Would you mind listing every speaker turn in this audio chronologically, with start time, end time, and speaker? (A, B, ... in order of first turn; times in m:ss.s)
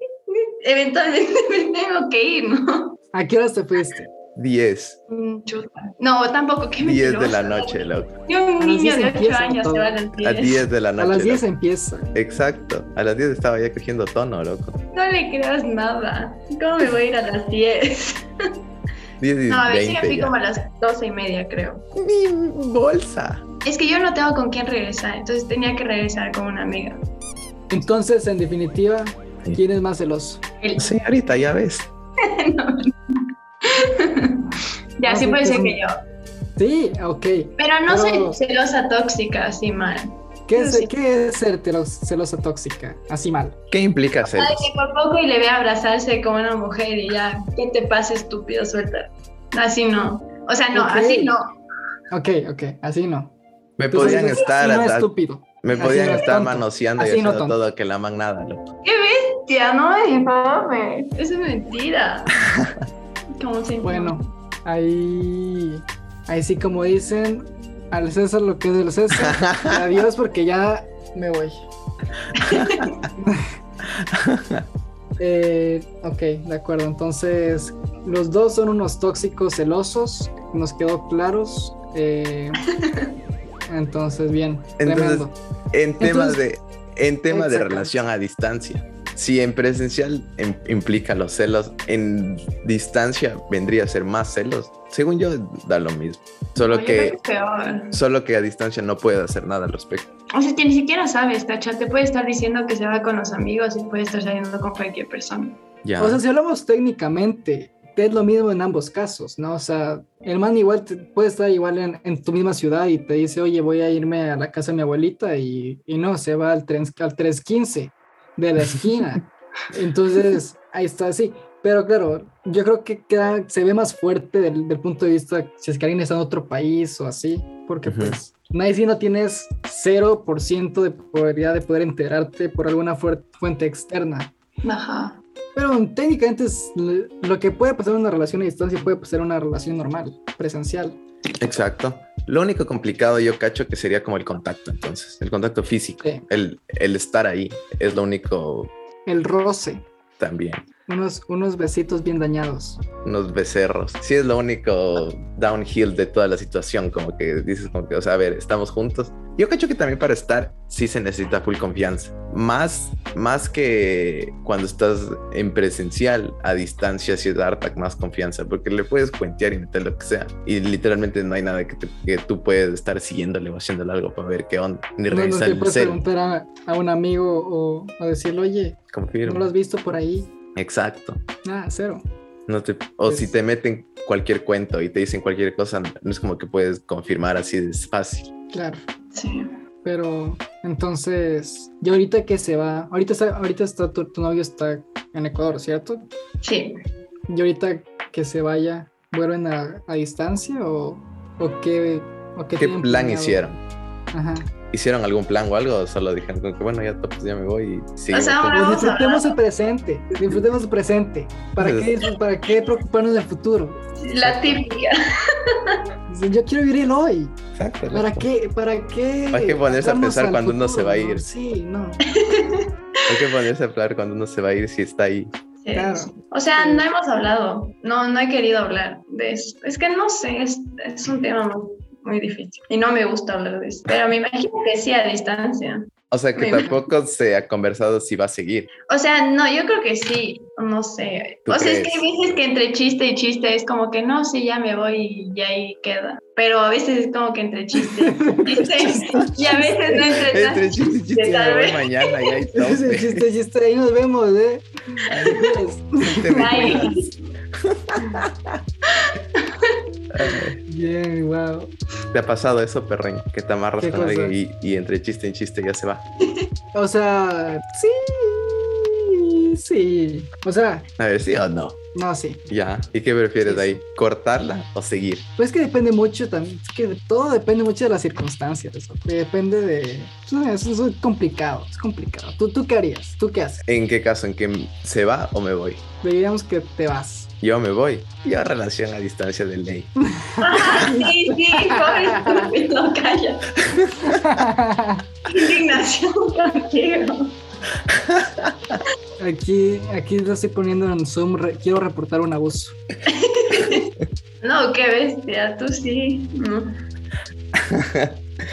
0:00.3-0:03.0 A
0:03.1-0:04.1 B
0:04.4-0:05.0 C
0:05.1-0:10.6 A
0:06.8-0:08.1 C
0:08.6-0:09.9 B
0:10.2-0:11.4 C
0:11.0-0:12.1 B
0:12.2-0:14.8 C
0:14.9-0:18.3 A
0:19.2-0:20.4 C
0:19.5-0:21.8 A
0:22.0-0:23.4 C
0:23.6-0:27.0 A
0:27.7-0:30.4 B
0:30.6-0:30.9 A
0:30.8-0:31.9 C
0:32.2-0:34.5 A
0:35.0-0:36.0 A
0:35.0-0:35.8 B
0:36.6-0:38.4 B
0:37.6-0:40.9 A
0:40.5-0:43.6 B
0:43.7-0:44.7 C
0:44.2-0:51.5 A
0:50.7-0:51.3 B
0:52.1-0:53.3 B
0:53.8-0:55.1 C
0:53.9-0:57.6 B
0:55.6-0:58.7 C
0:58.8-1:02.4 A
1:02.5-1:02.8 C
1:03.4-1:04.2 A
1:03.8-1:11.6 B
1:09.1-1:09.8 C
1:12.4-1:12.9 C
1:12.4-1:12.9 A
1:13.2-1:13.5 B
1:13.9-1:14.7 C
1:15.2-1:22.7 B
1:22.6-1:23.1 A
1:23.7-1:25.4 B
1:24.8-1:37.2 C
1:26.0-1:26.4 B
1:27.3-1:27.9 B
1:36.6-1:38.0 A
1:37.9-1:40.1 C
1:40.3-1:45.6 A
1:45.8-1:46.2 C
1:46.0-2:14.3 B
2:07.8-2:08.2 C
2:14.6-2:15.2 A
2:15.6-2:21.0 B
2:21.4-2:28.7 C
2:29.1-2:29.8 B
2:30.2-2:30.7 C
2:30.9-2:32.8 B
2:33.0-2:56.0 C
2:55.1-3:00.3 B
2:58.9-2:59.5 C
3:00.6-3:01.2 C
3:01.4-3:02.0 B
3:02.5-3:08.3 C
3:08.5-3:08.8 B
3:09.1-3:09.5 A
3:09.8-3:16.1 B
3:16.4-3:16.8 A
3:17.3-3:23.5 B
3:22.6-3:23.6 C
3:24.1-3:24.5 B
3:24.7-3:28.7 C
3:28.1-3:29.4 A
3:28.5-3:34.6 B
3:31.6-3:31.9 C
3:34.0-3:35.8 A
3:36.1-3:37.4 B
3:37.6-3:38.3 C
3:37.9-3:42.0 B
3:39.3-3:41.2 C
3:42.1-3:43.2 A
3:43.1-3:45.3 C
3:45.6-3:56.8 A
3:45.7-3:46.8 B
3:56.1-3:58.7 C
3:58.9-4:12.4 A
4:01.5-4:02.0 C
4:07.8-4:10.0 B
4:10.1-4:13.2 C
4:12.5-4:16.9 B
4:15.1-4:17.0 C
4:16.3-4:17.1 A
4:17.6-4:18.6 C
4:18.9-4:19.8 A
4:20.1-4:20.6 C
4:20.7-4:21.7 B
4:22.1-4:26.0 C
4:23.8-4:24.4 B
4:26.7-4:30.9 B
4:31.0-4:31.8 C
4:31.9-4:32.4 B
4:32.5-4:35.3 C
4:33.4-4:33.8 B
4:35.4-4:43.6 B
4:43.6-4:45.8 C
4:46.0-4:47.3 B
4:47.4-4:49.9 C
4:50.0-4:52.5 B
4:50.4-4:53.6 A
4:53.7-4:54.2 C
4:54.0-4:55.1 B
4:55.3-4:57.4 A
4:57.9-4:58.8 C
4:59.2-5:02.8 B
5:03.1-5:03.9 A
5:04.4-5:06.8 A
5:07.5-5:08.2 C